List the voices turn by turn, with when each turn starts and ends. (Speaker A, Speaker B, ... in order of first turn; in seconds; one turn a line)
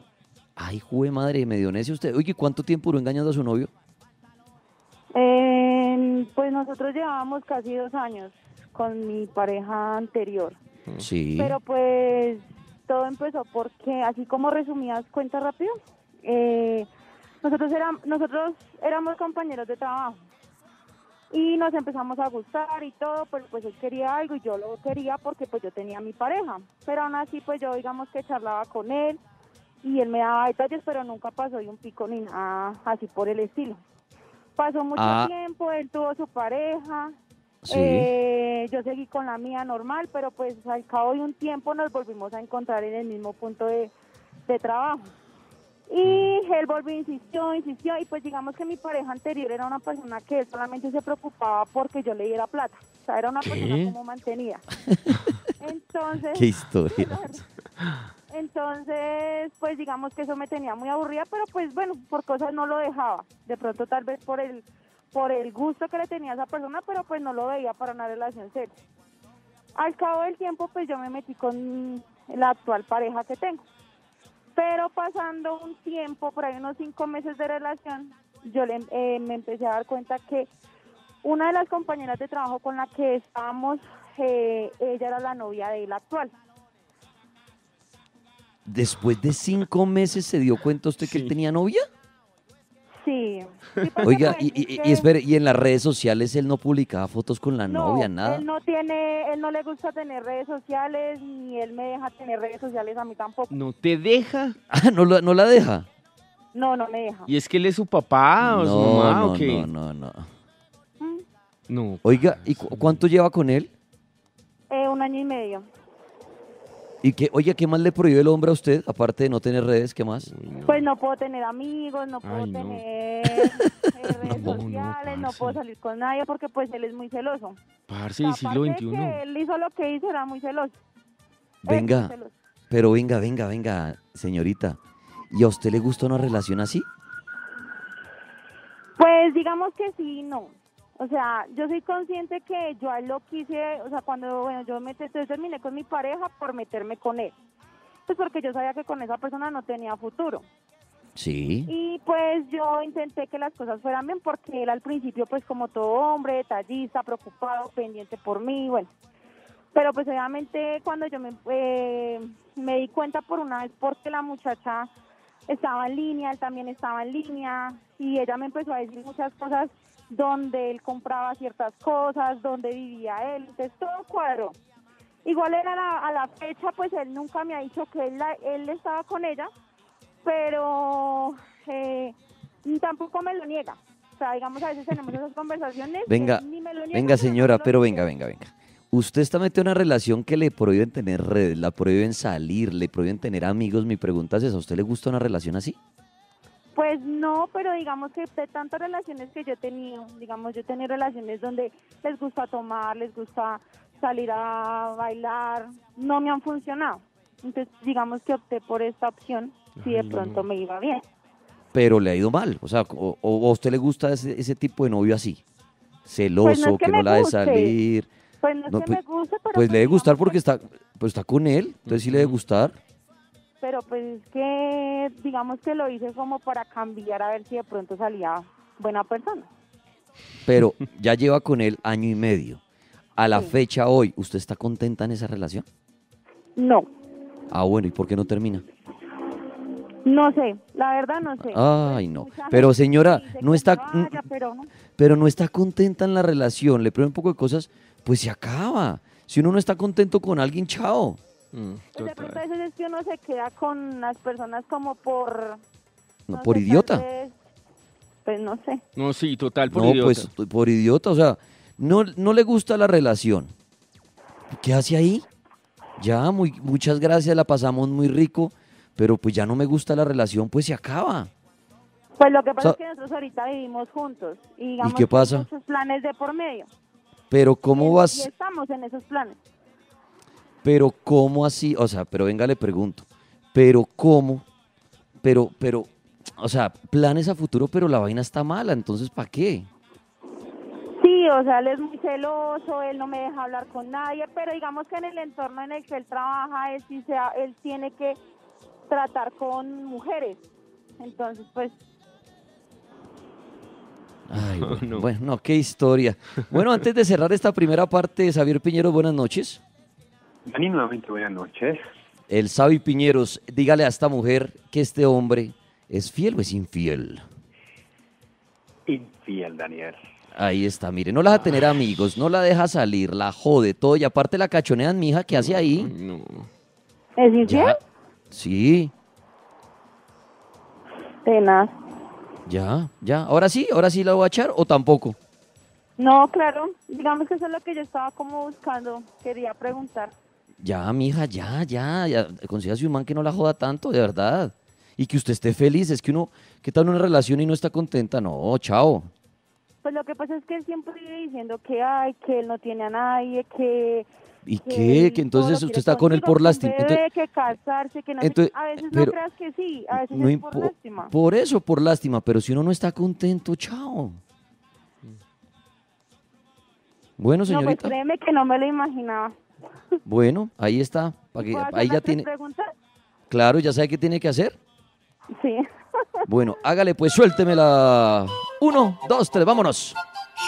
Speaker A: 0.6-3.7
Speaker B: 5.1-10.6
Speaker A: 11.0-11.6
Speaker B: 11.4-15.7
Speaker B: 16.2-16.9
Speaker B: 17.4-20.2
Speaker B: 21.3-29.2
Speaker B: 29.8-33.8
Speaker B: 34.5-37.1
Speaker A: 35.0-35.3
Speaker A: 37.6-38.1
Speaker B: 37.7-43.9
Speaker B: 44.5-45.1
Speaker B: 45.9-54.6
Speaker C: 46.0-46.3
Speaker C: 53.4-53.9
Speaker B: 55.6-57.5
Speaker A: 56.3-57.2
Speaker B: 58.3-68.7
Speaker B: 69.7-73.7
Speaker B: 74.5-80.5
Speaker B: 81.2-86.3
Speaker A: 88.7-91.8
Speaker C: 91.0-91.3
Speaker B: 93.0-95.1
Speaker A: 94.0-98.4
Speaker B: 97.7-103.5
Speaker C: 103.5-104.6
Speaker A: 104.7-105.9
Speaker B: 106.5-107.3
Speaker C: 107.3-109.7
Speaker A: 108.4-110.3
Speaker C: 111.7-113.0
Speaker A: 112.0-113.7
Speaker B: 114.7-115.7
Speaker A: 117.0-120.3
Speaker C: 120.3-120.8
Speaker B: 120.7-127.6
Speaker C: 122.2-122.8
Speaker A: 123.2-124.6
Speaker C: 124.2-125.6
Speaker C: 127.9-129.2
Speaker B: 128.2-130.7
Speaker A: 131.6-132.2
Speaker B: 131.7-132.3
Speaker A: 132.7-134.8
Speaker A: 135.3-136.9
Speaker B: 139.0-147.3
Speaker B: 148.1-150.5
Speaker A: 151.2-151.7
Speaker B: 151.7-158.9
Speaker B: 159.7-164.9
Speaker B: 165.5-174.6
Speaker B: 175.2-179.5
Speaker B: 180.2-188.1
Speaker A: 186.1-195.8
Speaker B: 196.7-211.0
Speaker C: 209.8-210.5
Speaker A: 211.7-215.4
Speaker A: 216.1-218.1
Speaker B: 216.4-217.8
Speaker B: 218.4-220.4
Speaker A: 218.7-219.0
Speaker A: 219.5-222.8
Speaker C: 221.8-222.4
Speaker B: 223.6-229.5
Speaker A: 230.4-232.6
Speaker A: 233.2-235.7
Speaker B: 236.6-236.9
Speaker A: 237.5-238.6
Speaker B: 240.0-244.7
Speaker A: 241.3-244.2
Speaker A: 244.9-251.2
Speaker C: 251.5-252.4
Speaker B: 251.9-255.6
Speaker A: 256.3-257.0
Speaker B: 256.3-257.4
Speaker B: 258.2-258.8
Speaker C: 259.0-260.3
Speaker A: 259.7-263.5
Speaker A: 264.5-265.3
Speaker A: 266.0-271.3
Speaker B: 272.2-276.7
Speaker A: 274.8-275.5
Speaker A: 277.3-278.3
Speaker B: 277.7-279.4
Speaker A: 280.6-284.4
Speaker A: 285.2-289.7
Speaker B: 291.0-298.2
Speaker B: 298.9-300.4
Speaker B: 301.0-301.8
Speaker A: 304.3-309.6
Speaker C: 304.4-305.0
Speaker D: 310.4-311.8
Speaker A: 312.3-317.2
Speaker D: 318.9-320.0
Speaker A: 320.3-325.9
Speaker C: 325.3-326.5
Speaker B: 327.2-327.8
Speaker A: 327.4-327.8
Speaker A: 328.3-328.9
Speaker B: 331.2-331.8
Speaker A: 332.4-335.1
Speaker B: 336.0-340.1
Speaker A: 340.6-349.1
Speaker B: 349.8-354.1
Speaker A: 354.4-357.0
Speaker B: 354.6-361.1
Speaker A: 358.2-359.1
Speaker A: 359.9-364.2
Speaker A: 367.2-367.9
Speaker B: 367.5-369.4
Speaker A: 370.1-372.3
Speaker B: 371.4-372.7
Speaker A: 373.3-374.6
Speaker B: 375.3-376.2
Speaker A: 376.2-380.0